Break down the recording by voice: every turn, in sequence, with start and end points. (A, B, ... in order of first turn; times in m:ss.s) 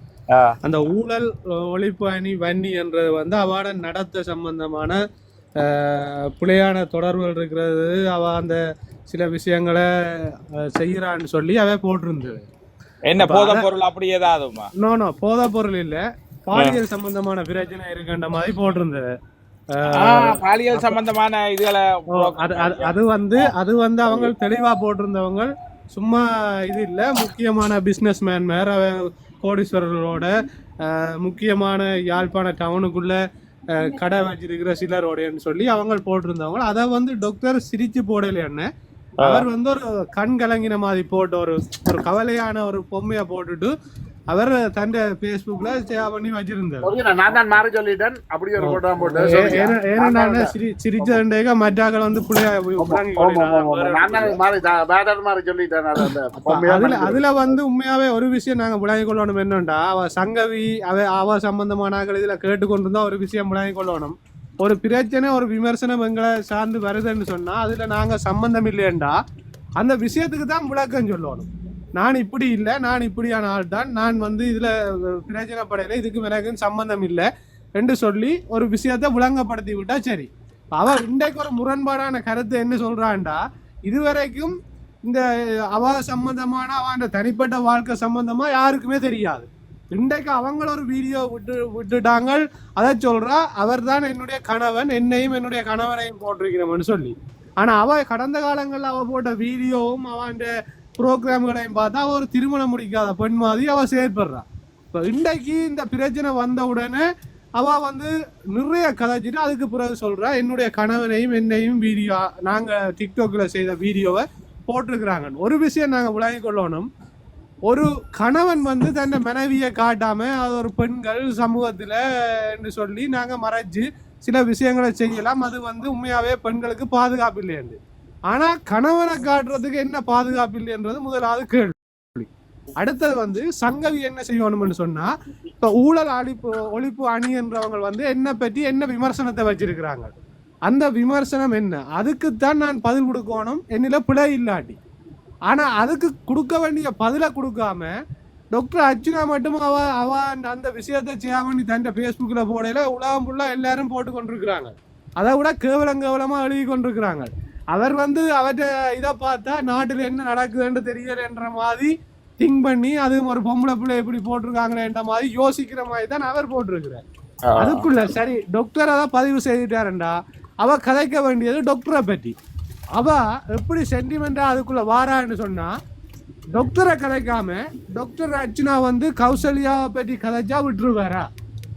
0:00.3-0:00.6 A
0:00.6-0:05.0 B
0:05.6-0:12.4 B
0:13.1-0:14.7 A
0:13.2-0:13.7 B
0:14.8-0:19.1 B
0:19.7-0:21.0 B
0:19.9-0:23.5 A
0:22.1-0:30.3 B
0:30.8-0:33.2 B
0:33.7-0:38.7 B
0:39.2-0:43.7 B
0:44.3-0:46.9 B
0:46.8-0:51.2 C
0:48.6-0:53.9 B
0:52.8-0:57.2 C
0:53.5-0:54.4 A
0:56.4-1:09.2 B
1:09.8-1:17.3 B
1:17.8-1:24.5 B
1:25.0-1:47.0 B
1:47.6-1:56.9 B
1:57.7-2:07.8 B
2:08.3-2:12.3 B
2:12.8-2:20.1 B
2:20.7-2:24.8 B
2:25.5-2:27.9 B
2:28.5-2:47.0 B
2:47.4-2:47.8 A
2:47.6-2:52.3 B
2:53.0-2:55.7 B
2:56.5-3:01.2 B